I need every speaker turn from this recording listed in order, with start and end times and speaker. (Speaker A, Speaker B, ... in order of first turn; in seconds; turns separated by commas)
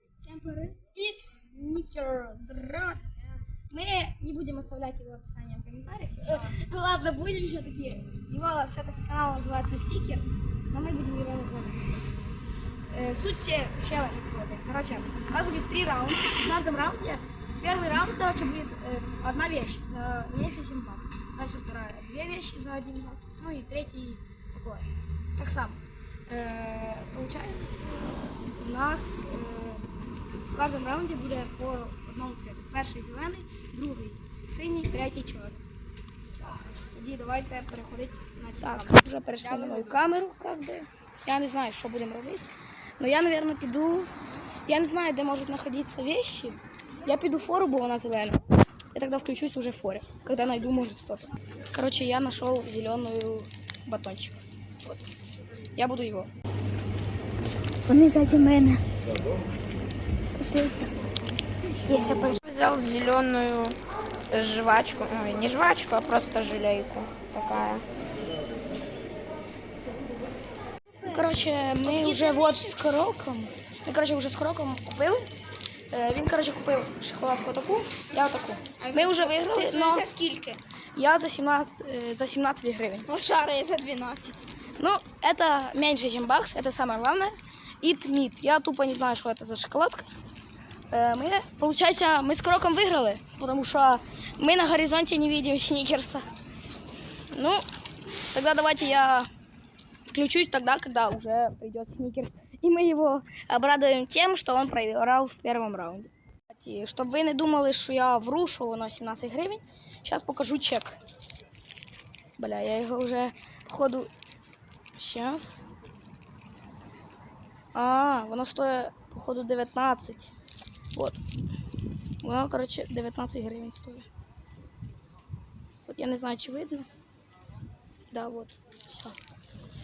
Speaker A: 0.2-0.8, Speaker B: 0.6-12.1, Speaker B: 12.9-29.8, Speaker B: 30.5-35.6, Speaker B: 36.8-44.1, Speaker A: 39.4-40.0, Speaker B: 44.7-48.4, Speaker B: 48.9-55.1, Speaker B: 55.8-56.3, Speaker A: 57.9-58.8, Speaker B: 60.4-60.9, Speaker A: 61.9-62.4, Speaker C: 62.3-63.8, Speaker C: 64.3-67.8, Speaker B: 71.0-75.2, Speaker A: 71.8-72.8, Speaker B: 75.9-80.1, Speaker A: 78.8-80.6, Speaker B: 81.0-83.1, Speaker A: 83.1-84.5, Speaker B: 84.8-90.1, Speaker B: 90.9-96.3, Speaker B: 97.3-97.6, Speaker B: 98.3-99.3, Speaker B: 100.1-111.0, Speaker B: 112.4-114.1, Speaker B: 115.0-115.6, Speaker B: 117.7-120.3, Speaker B: 121.0-121.2, Speaker B: 122.2-124.1, Speaker B: 125.9-126.9, Speaker B: 128.1-129.2